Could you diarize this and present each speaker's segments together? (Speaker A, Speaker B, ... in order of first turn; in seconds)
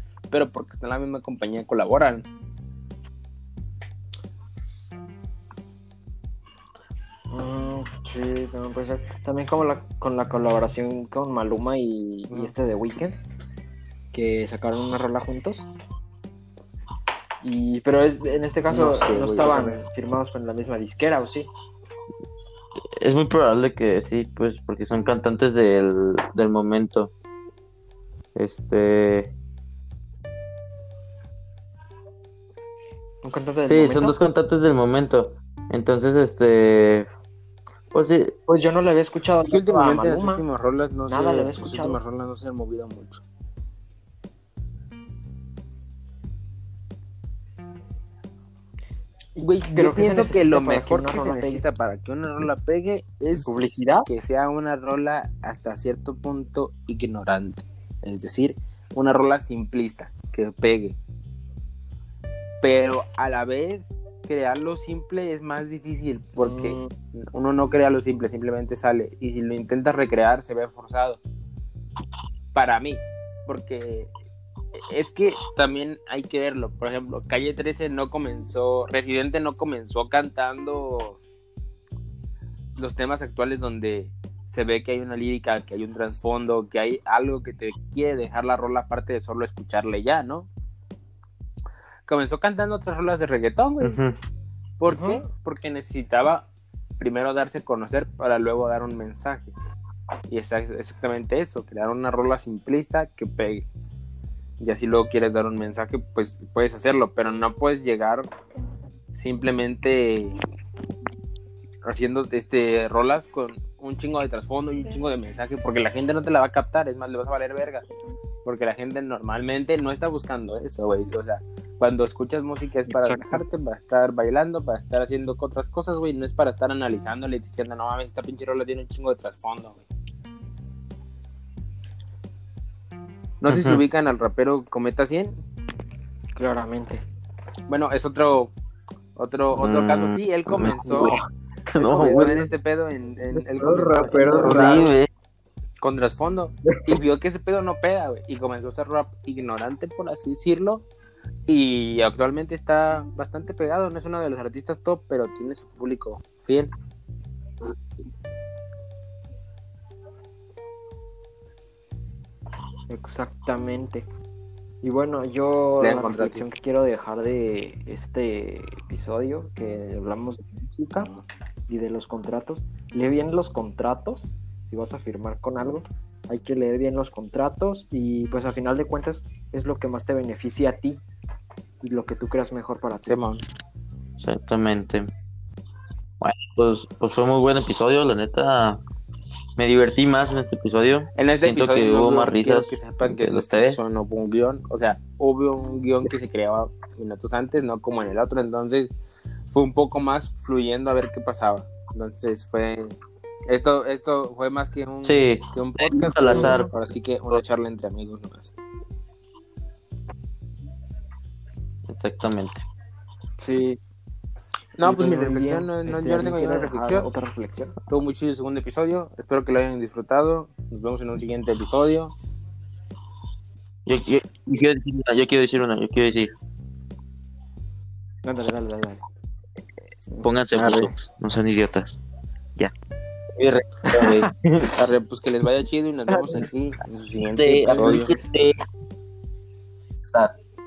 Speaker A: 0.3-2.3, 18.7-19.8, 39.5-43.2, 49.4-53.5, 54.1-61.0, 62.6-71.2, 72.5-74.1, 74.8-81.2, 82.8-90.5, 92.1-94.0, 94.8-96.5, 97.0-99.5, 100.3-103.7, 104.6-108.3, 109.2-110.4, 111.8-117.9, 118.5-129.8, 133.4-135.3, 137.7-138.5, 139.2-141.2, 141.8-144.9, 145.8-150.8, 151.5-156.7, 165.8-166.4, 183.1-183.4, 191.2-198.9, 199.5-203.0, 203.5-208.6, 214.8-217.1, 217.9-222.1, 234.8-238.1
Speaker B: 7.3-13.2, 14.1-15.7, 17.4-21.5, 33.2-34.2, 38.5-40.5, 41.1-42.0, 49.4-51.6, 53.4-54.1, 66.4-66.9, 94.9-95.2, 122.9-123.4, 136.4-137.0, 141.8-142.5, 143.3-144.9, 162.9-164.1, 164.8-171.1, 171.7-181.0, 181.8-183.2, 206.3-206.7, 213.4-213.8, 214.8-217.8, 228.2-229.0, 230.1-230.9, 233.8-234.3, 236.1-236.4, 237.7-238.2
Speaker C: 23.0-27.1, 28.4-29.3, 33.7-37.1, 37.9-38.4, 93.8-94.2, 133.5-133.8, 139.5-142.4, 144.4-145.1, 184.2-185.1, 186.2-188.8, 189.6-193.8, 205.0-206.7, 211.9-212.7, 223.9-226.3, 230.2-232.0, 233.4-234.7, 237.3-238.6, 240.1-240.3